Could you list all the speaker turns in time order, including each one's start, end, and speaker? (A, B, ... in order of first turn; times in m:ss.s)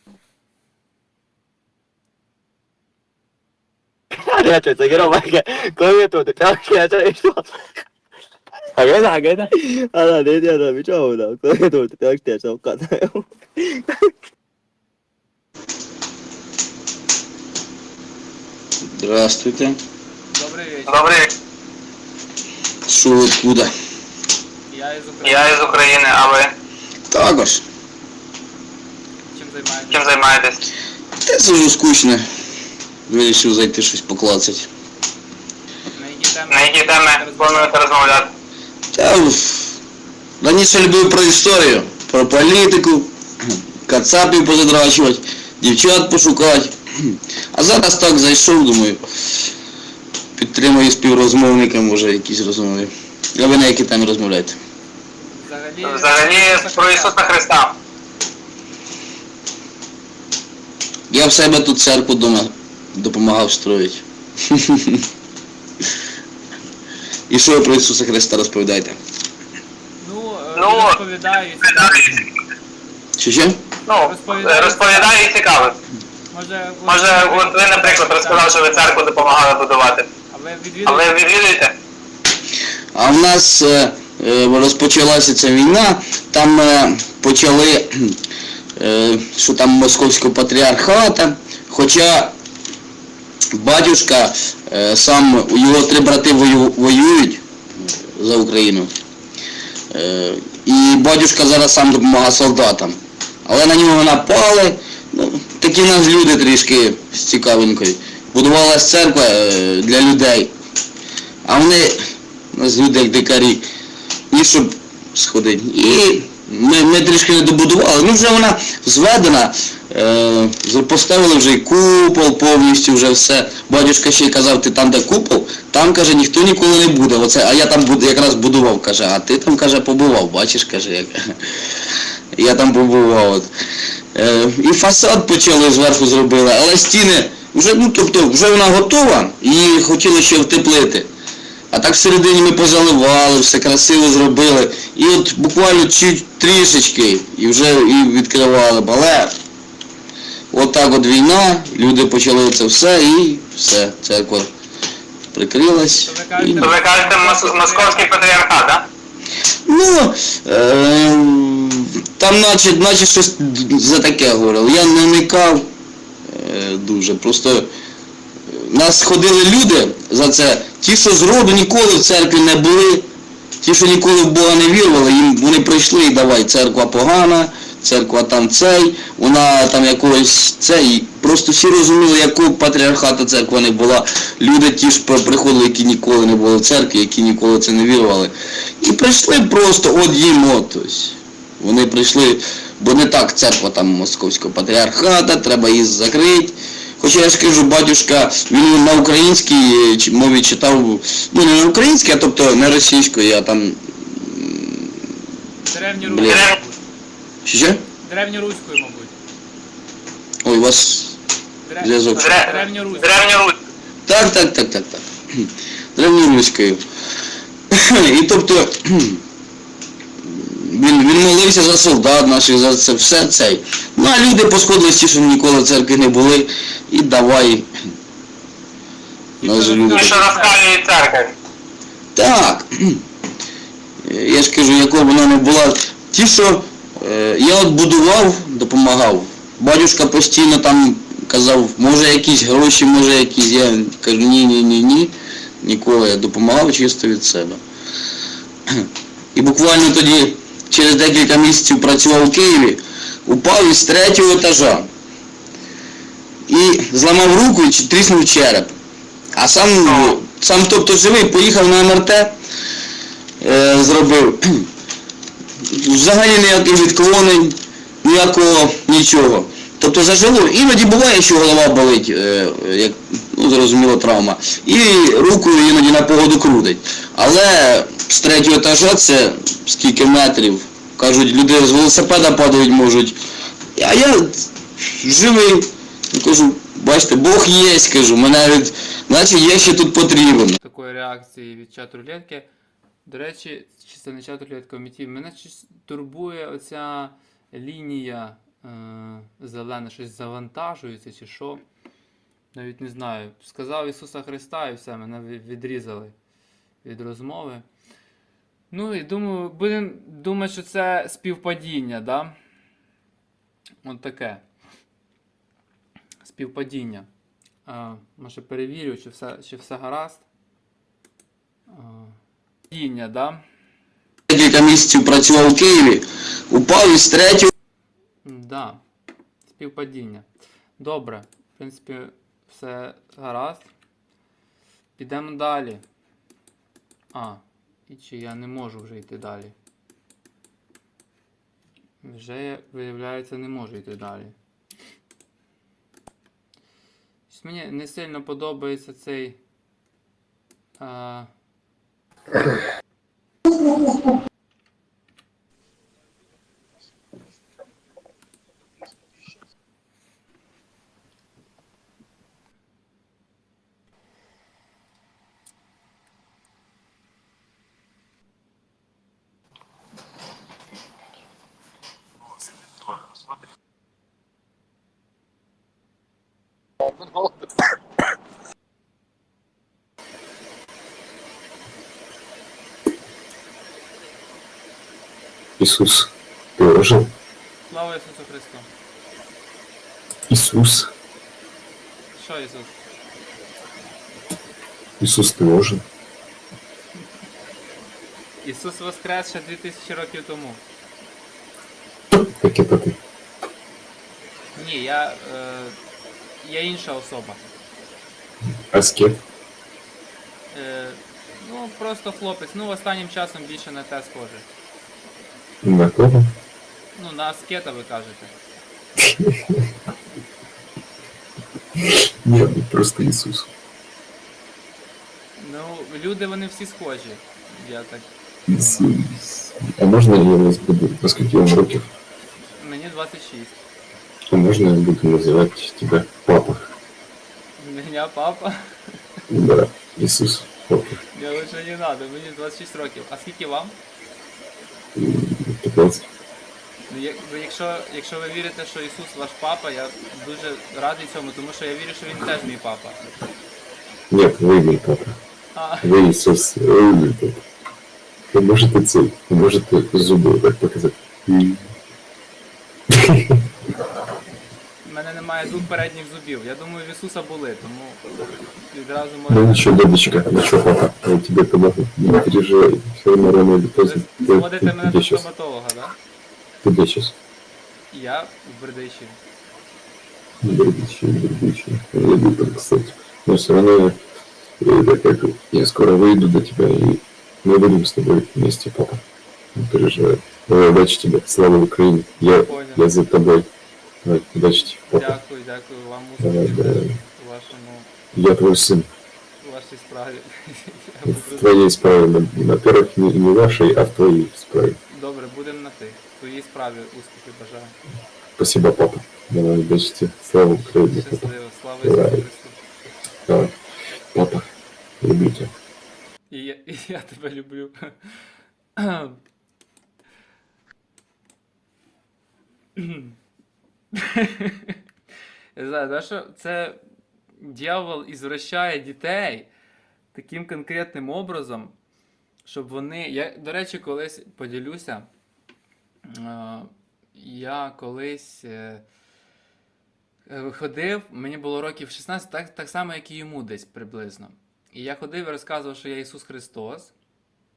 0:04.1-0:07.4 A
0:08.8-0:13.9 A
0:18.9-0:19.8 B
0:20.3-0:21.2 C
0:20.9-0:21.3 D
0:22.9-0:23.7 B
0:24.7-0:26.2 C
0:25.2-0:26.5 D
0:27.1-0:27.6 B
0:29.3-0:30.2 C
0:29.9-0:30.6 D
0:31.2-0:32.2 B
0:33.1-0:34.7 B
0:35.9-0:38.2 C
0:36.5-0:38.3 D
0:38.9-0:39.8 B
0:40.4-0:43.1 B
0:43.8-0:49.0 B
0:50.4-0:54.6 B
0:55.3-0:57.2 C
0:55.8-0:57.7 D
1:01.1-1:05.0 B
1:07.3-1:09.0 B
1:10.0-1:12.2 C
1:10.6-1:11.0 D
1:11.7-1:12.2 D
1:13.2-1:13.6 B
1:13.9-1:15.7 D
1:14.0-1:15.3 C
1:16.3-1:19.5 C
1:16.8-1:20.1 D
1:20.3-1:21.2 C
1:20.8-1:21.7 D
1:22.9-1:28.2 B
1:28.8-1:32.3 B
1:33.5-1:37.4 B
1:38.2-1:38.9 B
1:39.9-1:50.5 B
1:51.4-1:52.0 B
1:52.5-1:53.6 B
1:54.3-2:11.3 B
2:12.4-2:13.5 B
2:14.1-2:21.1 B
2:21.7-2:29.3 B
2:30.5-2:34.5 B
2:35.3-2:36.8 B
2:36.0-2:38.5 C
2:36.6-2:38.8 D
2:39.6-2:45.6 B
2:46.3-2:47.7 B
2:48.5-2:53.0 B
2:53.6-3:24.9 B
3:25.6-3:26.8 C
3:26.0-3:26.5 B
3:26.3-3:26.6 D
3:27.4-3:27.8 B
3:28.0-3:29.1 C
3:30.4-3:31.2 B
3:31.6-3:33.3 C
3:31.8-3:32.3 B
3:32.1-3:33.5 D
3:34.0-3:36.8 B
3:37.7-3:39.2 B
3:40.3-3:47.7 B
3:49.4-3:50.2 B
3:49.4-3:50.6 C
3:49.9-3:51.3 D
3:52.1-3:53.0 B
3:54.0-4:07.6 B
4:08.7-4:14.9 B
4:16.5-4:18.7 B
4:19.3-4:22.3 B
4:19.7-4:20.2 D
4:23.4-4:24.7 B
4:25.7-4:43.2 B
4:43.8-4:50.6 B
4:50.6-4:52.5 C
4:53.0-5:01.6 C
5:02.5-5:06.1 C
5:06.8-5:07.6 C
5:08.7-5:12.3 C
5:13.8-5:14.4 C
5:16.2-5:17.1 C
5:17.6-5:20.2 C
5:21.7-5:22.2 C
5:22.7-5:23.4 C
5:24.3-5:27.5 B
5:28.2-5:28.8 C
5:29.4-5:33.7 C
5:35.0-5:35.8 C
5:37.1-5:39.5 C
5:42.0-5:44.3 C
5:47.3-5:49.4 C
5:50.8-5:51.3 C
6:25.6-6:27.1 E
6:27.7-6:28.7 C
6:30.3-6:30.9 E
6:32.1-6:32.8 C
6:35.0-6:35.8 E
6:38.4-6:40.6 C
6:42.1-6:43.0 E
6:44.5-6:45.8 C
6:46.4-6:47.4 C
6:48.7-6:49.2 E
6:50.5-6:54.5 C
6:55.6-6:56.3 E
6:56.9-6:58.3 C
6:59.0-6:59.6 E
7:01.8-7:03.5 E
7:05.4-7:09.0 C
7:08.5-7:11.9 E
7:12.6-7:13.6 C
7:14.3-7:16.6 E
7:17.6-7:18.6 C
7:19.3-7:21.0 E
7:21.1-7:23.8 C
7:24.9-7:26.0 E
7:26.9-7:33.0 C
7:34.1-7:35.2 E
7:35.5-7:36.0 C
7:35.8-7:37.4 E
7:38.3-7:41.7 E
7:42.9-7:43.4 E
7:44.8-7:48.0 C
7:48.7-7:49.9 C
7:49.3-7:55.3 E
7:53.8-7:56.0 C
7:56.6-7:57.1 E
7:57.9-7:59.2 C
8:00.4-8:04.0 E
8:04.6-8:09.0 E
8:09.5-8:13.5 E
8:12.2-8:13.0 C
8:14.0-8:15.2 E
8:14.9-8:17.9 C
8:16.2-8:17.0 E
8:18.1-8:18.9 E
8:19.4-8:21.7 C
8:21.0-8:24.8 E
8:24.9-8:27.7 C
8:28.4-8:32.2 E
8:30.8-8:32.6 C
8:33.2-8:33.5 E
8:34.1-8:34.4 E
8:35.0-8:35.5 E
8:36.3-8:38.1 C
8:38.8-8:39.2 C
8:42.8-8:43.2 C
8:43.9-8:44.8 C
8:45.5-8:46.8 C
8:47.4-8:49.5 C
8:50.1-8:51.7 C
8:52.4-8:55.1 C
8:56.0-8:58.8 C
9:00.3-9:06.9 C